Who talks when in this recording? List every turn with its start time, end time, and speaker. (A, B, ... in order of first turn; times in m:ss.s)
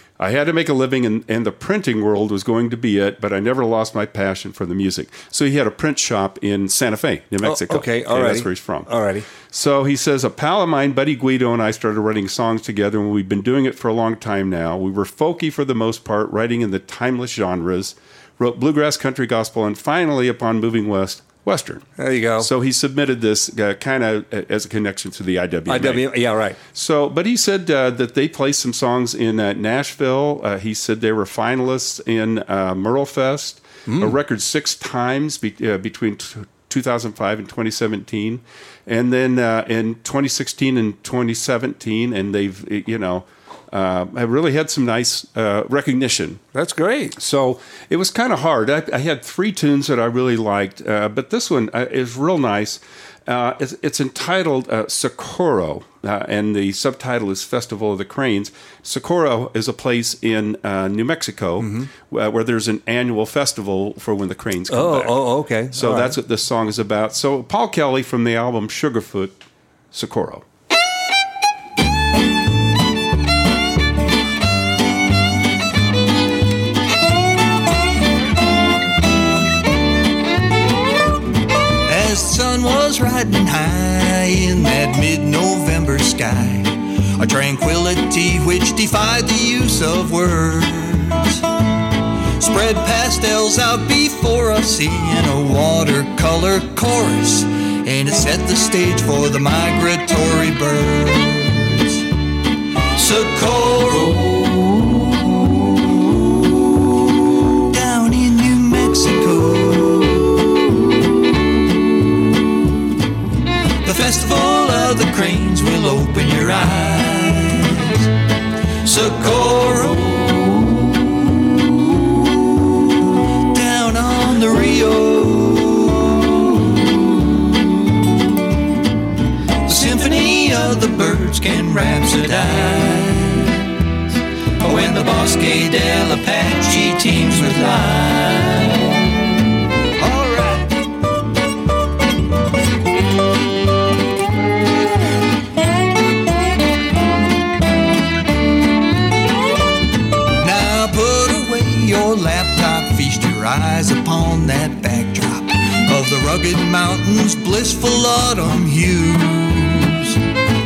0:00.2-0:21.8 A
0:07.4-0:09.3 B
0:22.0-0:22.5 B
0:22.4-0:26.1 A
0:25.7-0:26.6 B
0:26.7-0:46.4 A
0:33.9-0:34.1 B
0:46.5-0:47.2 B
0:47.2-1:05.2 A
1:01.6-1:01.9 B
1:04.7-1:06.2 B
1:05.7-1:10.4 A
1:21.8-1:31.4 C
1:32.4-1:42.0 C
1:42.9-1:47.0 C
1:47.6-1:50.8 C
1:53.8-1:58.1 C
1:58.8-2:08.1 C
2:09.6-2:13.8 C
2:14.6-2:19.3 C
2:20.0-2:20.7 C
2:30.4-2:40.2 C